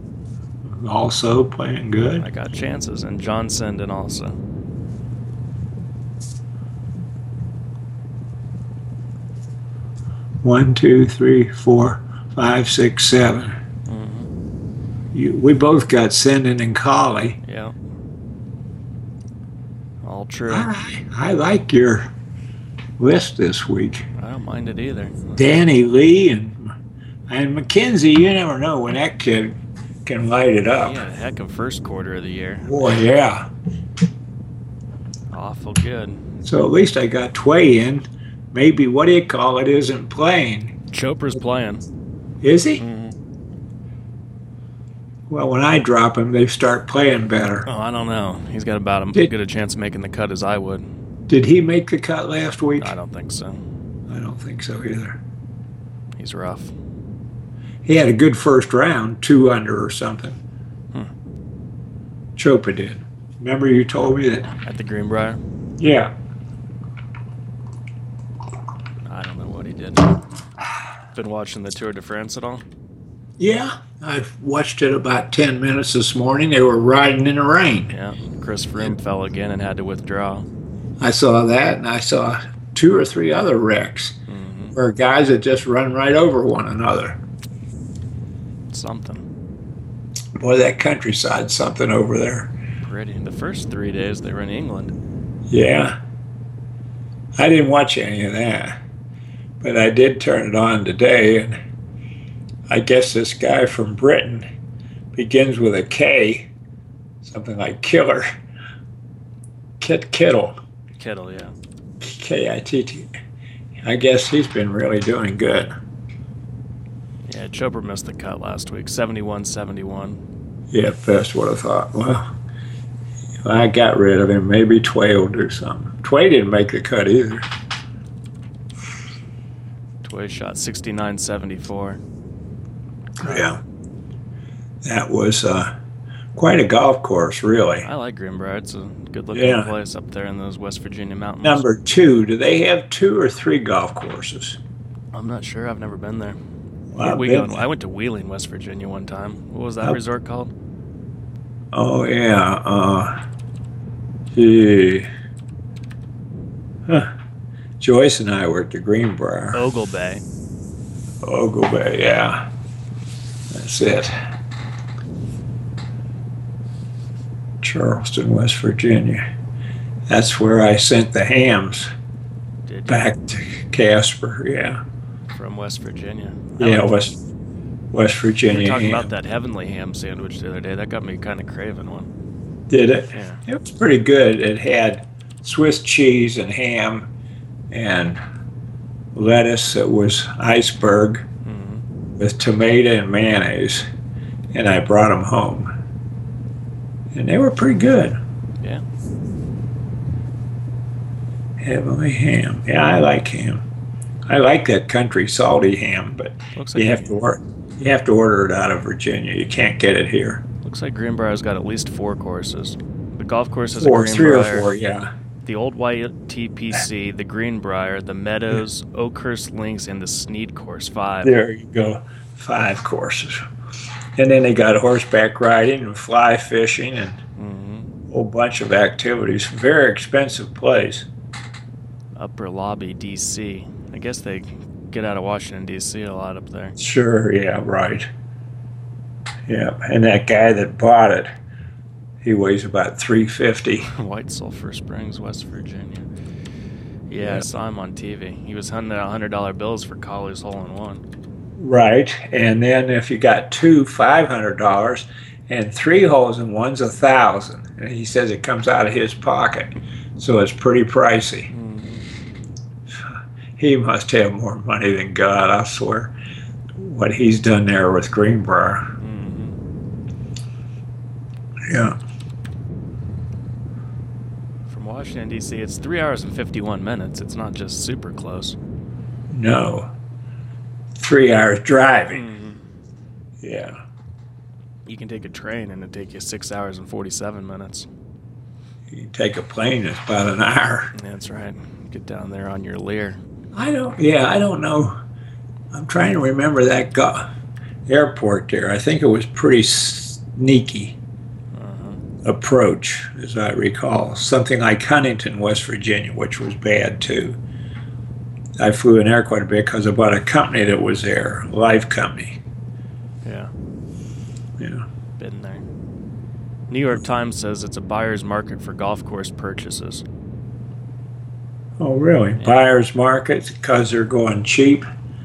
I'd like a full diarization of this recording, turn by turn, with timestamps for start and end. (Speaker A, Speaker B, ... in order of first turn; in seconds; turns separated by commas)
Speaker A: 0.6-2.2, Speaker B: 2.2-4.4, Speaker A: 10.4-13.5, Speaker B: 13.9-14.3, Speaker A: 15.1-17.4, Speaker B: 17.4-17.7, Speaker B: 20.0-20.7, Speaker A: 20.4-22.1, Speaker A: 23.0-24.0, Speaker B: 24.2-25.4, Speaker A: 25.3-26.7, Speaker A: 27.3-29.5, Speaker A: 30.1-31.0, Speaker B: 30.8-32.7, Speaker A: 32.6-33.5, Speaker B: 35.3-36.2, Speaker A: 36.4-40.7, Speaker B: 40.9-41.8, Speaker A: 42.4-42.8, Speaker B: 42.8-43.1, Speaker A: 45.3-47.7, Speaker B: 47.6-50.8, Speaker A: 51.3-52.9, Speaker B: 52.8-53.6, Speaker A: 54.1-55.2, Speaker B: 56.2-56.7, Speaker A: 57.8-60.4, Speaker A: 62.4-64.5, Speaker B: 64.6-65.4, Speaker A: 65.8-66.1, Speaker B: 69.0-70.2, Speaker B: 71.1-72.6, Speaker A: 73.4-77.9, Speaker B: 77.9-80.5, Speaker A: 81.0-84.2, Speaker B: 84.3-84.7, Speaker A: 84.7-87.2, Speaker B: 88.7-89.2, Speaker A: 90.3-92.5, Speaker B: 92.8-94.9, Speaker A: 95.5-95.9, Speaker A: 97.4-98.7, Speaker A: 99.6-101.5, Speaker A: 102.7-104.5, Speaker A: 105.1-106.5, Speaker A: 107.2-108.3, Speaker A: 109.8-110.5, Speaker B: 111.0-111.5, Speaker A: 112.0-113.1, Speaker A: 113.8-115.7, Speaker B: 117.2-120.2, Speaker A: 120.7-122.3, Speaker A: 123.4-127.4, Speaker B: 130.0-132.0, Speaker A: 133.2-133.6, Speaker B: 133.2-133.5, Speaker A: 134.8-135.7, Speaker A: 136.4-137.9, Speaker B: 137.8-141.6, Speaker A: 139.3-139.7, Speaker A: 141.4-144.6, Speaker B: 145.1-146.4, Speaker A: 146.9-147.6, Speaker B: 147.0-150.5, Speaker A: 151.7-153.1, Speaker A: 154.3-155.1, Speaker A: 157.8-159.6, Speaker B: 159.5-160.2, Speaker A: 161.2-162.4, Speaker A: 163.5-164.1, Speaker A: 167.6-169.2, Speaker A: 170.1-171.9, Speaker B: 172.7-173.1, Speaker A: 172.9-174.8, Speaker B: 175.3-176.9, Speaker A: 176.6-177.2, Speaker A: 177.9-179.1, Speaker B: 178.5-182.1, Speaker A: 182.7-187.1, Speaker B: 183.1-183.4, Speaker A: 187.7-188.2, Speaker A: 189.1-191.2, Speaker B: 191.4-191.8, Speaker A: 192.2-193.8, Speaker A: 194.5-195.7, Speaker A: 197.1-198.2, Speaker A: 201.6-203.6, Speaker A: 204.3-210.4, Speaker B: 206.5-207.1, Speaker B: 210.6-214.7, Speaker A: 213.8-215.1, Speaker B: 215.4-221.3, Speaker A: 221.2-223.4, Speaker A: 224.2-227.2, Speaker B: 227.4-227.9, Speaker A: 228.1-231.1, Speaker B: 232.2-236.8, Speaker A: 236.8-238.1, Speaker A: 239.5-241.3, Speaker A: 242.2-243.9, Speaker B: 243.9-246.1, Speaker B: 247.1-251.0, Speaker A: 247.2-247.4, Speaker A: 251.6-261.5, Speaker B: 261.5-262.0, Speaker A: 263.6-266.1, Speaker A: 266.8-268.9, Speaker B: 269.0-269.6, Speaker A: 271.7-271.9, Speaker B: 274.7-278.6, Speaker A: 279.3-279.9, Speaker A: 281.0-282.2, Speaker B: 282.1-282.6, Speaker A: 283.4-283.8, Speaker B: 284.9-287.9, Speaker A: 288.9-290.9, Speaker B: 290.9-293.2, Speaker A: 293.5-294.9, Speaker A: 295.7-297.2, Speaker A: 297.9-300.9, Speaker B: 301.5-302.0, Speaker A: 302.2-307.4, Speaker A: 308.6-312.4, Speaker B: 313.2-313.5, Speaker A: 314.6-314.9, Speaker B: 315.2-315.6, Speaker B: 316.7-320.0, Speaker A: 321.8-324.8